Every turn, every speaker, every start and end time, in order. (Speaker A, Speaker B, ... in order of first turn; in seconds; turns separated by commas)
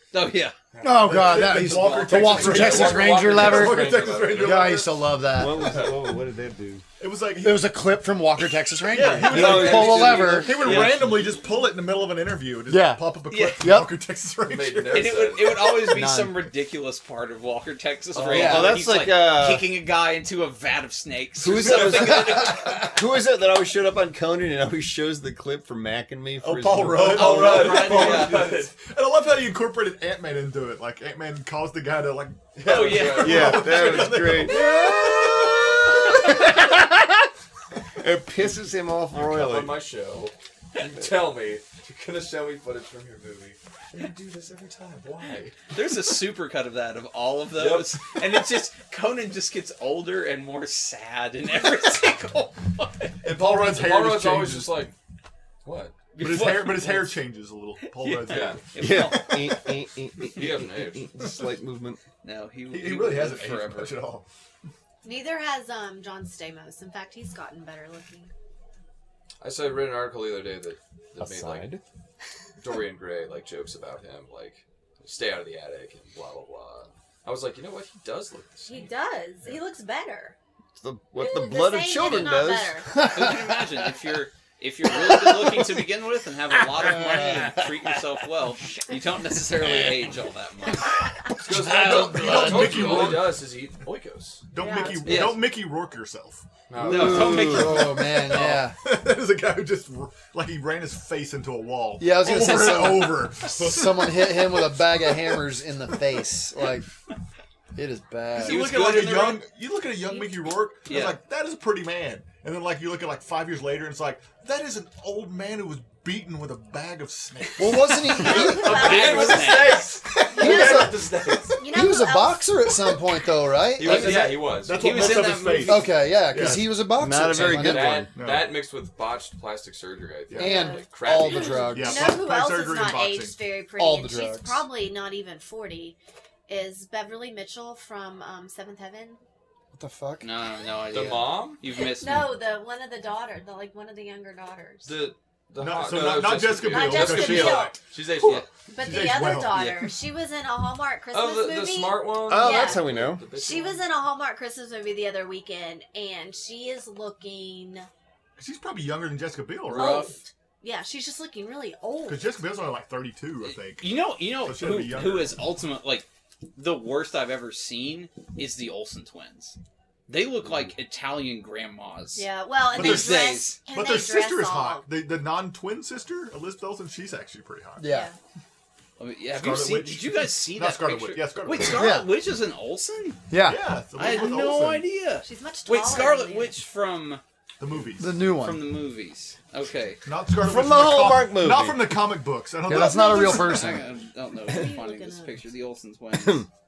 Speaker A: 0.1-0.6, Speaker B: 0.7-1.4, Speaker C: 0.8-5.8, Speaker D: 0.9-5.0, Speaker A: 1.5-2.8, Speaker B: 2.1-4.8, Speaker E: 5.2-6.8, Speaker B: 5.4-6.2, Speaker D: 7.0-7.7, Speaker C: 7.4-10.8, Speaker D: 8.9-15.4, Speaker E: 9.2-11.2, Speaker B: 9.2-11.0, Speaker A: 10.4-11.2, Speaker C: 12.7-13.9, Speaker A: 13.3-13.6, Speaker B: 14.4-15.8, Speaker A: 14.9-23.0, Speaker C: 15.9-16.4, Speaker B: 18.1-18.7, Speaker E: 18.3-19.7, Speaker C: 18.3-18.7, Speaker E: 21.4-27.3, Speaker B: 21.5-22.4, Speaker D: 26.4-35.8, Speaker B: 26.9-28.7, Speaker A: 27.1-28.4, Speaker B: 32.5-36.3, Speaker A: 32.6-33.5, Speaker E: 33.2-37.3, Speaker E: 38.0-39.8, Speaker B: 39.1-45.6, Speaker A: 45.7-53.1, Speaker B: 47.5-48.0, Speaker D: 53.2-54.9, Speaker B: 53.2-54.9, Speaker B: 55.6-56.1, Speaker A: 56.1-57.2, Speaker D: 56.2-59.3, Speaker A: 57.9-59.6, Speaker B: 58.3-58.6, Speaker E: 58.8-62.0, Speaker B: 60.3-61.2, Speaker A: 62.2-64.0, Speaker D: 62.7-64.2, Speaker F: 65.0-68.3, Speaker B: 69.4-71.7, Speaker E: 71.2-71.8, Speaker B: 72.6-78.8, Speaker F: 78.6-80.3, Speaker E: 80.8-83.4, Speaker F: 81.2-82.9, Speaker A: 82.0-82.3, Speaker A: 83.0-90.9, Speaker E: 84.9-85.8, Speaker E: 86.5-88.0, Speaker E: 89.6-90.0, Speaker B: 91.4-94.4, Speaker D: 91.4-93.4, Speaker E: 91.6-92.7, Speaker A: 92.0-93.1, Speaker D: 94.5-96.4, Speaker F: 94.6-95.2, Speaker A: 95.0-95.5, Speaker B: 96.7-97.6, Speaker E: 96.8-97.9, Speaker A: 96.9-97.8, Speaker C: 96.9-98.8, Speaker D: 97.7-104.2, Speaker C: 102.0-106.8, Speaker C: 107.7-108.7, Speaker A: 108.4-109.4, Speaker D: 108.4-118.0, Speaker A: 110.8-111.2, Speaker C: 117.6-118.9, Speaker F: 118.0-122.5, Speaker B: 118.2-121.7, Speaker A: 118.3-119.9, Speaker C: 120.1-124.4, Speaker B: 123.8-124.8, Speaker D: 123.8-126.7, Speaker A: 124.7-125.9, Speaker C: 125.6-128.1, Speaker E: 126.9-128.1, Speaker B: 127.2-131.8, Speaker D: 128.1-128.5, Speaker D: 130.3-130.6, Speaker C: 130.4-132.2, Speaker F: 130.5-136.0, Speaker D: 131.7-133.4, Speaker C: 133.8-134.6, Speaker F: 136.5-139.2, Speaker C: 139.7-140.3, Speaker A: 140.2-142.3, Speaker B: 140.9-141.6, Speaker F: 141.8-145.0, Speaker B: 144.8-148.5, Speaker D: 145.6-147.8, Speaker F: 146.6-157.9, Speaker D: 148.8-149.7, Speaker B: 149.4-149.9, Speaker B: 151.1-153.8, Speaker E: 152.2-153.2, Speaker D: 158.4-160.1, Speaker F: 159.7-162.4, Speaker A: 159.7-160.2, Speaker D: 162.0-165.4, Speaker A: 163.4-169.6, Speaker A: 170.1-173.6, Speaker F: 172.1-174.9, Speaker D: 172.7-177.9, Speaker C: 177.8-178.1, Speaker F: 177.8-178.1, Speaker A: 179.0-183.2, Speaker D: 179.3-181.9, Speaker C: 181.7-182.1, Speaker C: 183.3-183.6, Speaker D: 183.4-184.8, Speaker A: 183.9-187.2, Speaker F: 184.0-184.5, Speaker F: 185.2-186.6, Speaker D: 187.6-188.1, Speaker C: 188.0-188.7, Speaker A: 188.3-190.0, Speaker D: 190.0-193.6, Speaker E: 190.3-192.2, Speaker C: 192.7-193.8, Speaker F: 192.8-193.9, Speaker A: 193.0-196.5, Speaker F: 194.4-195.4, Speaker E: 196.1-196.4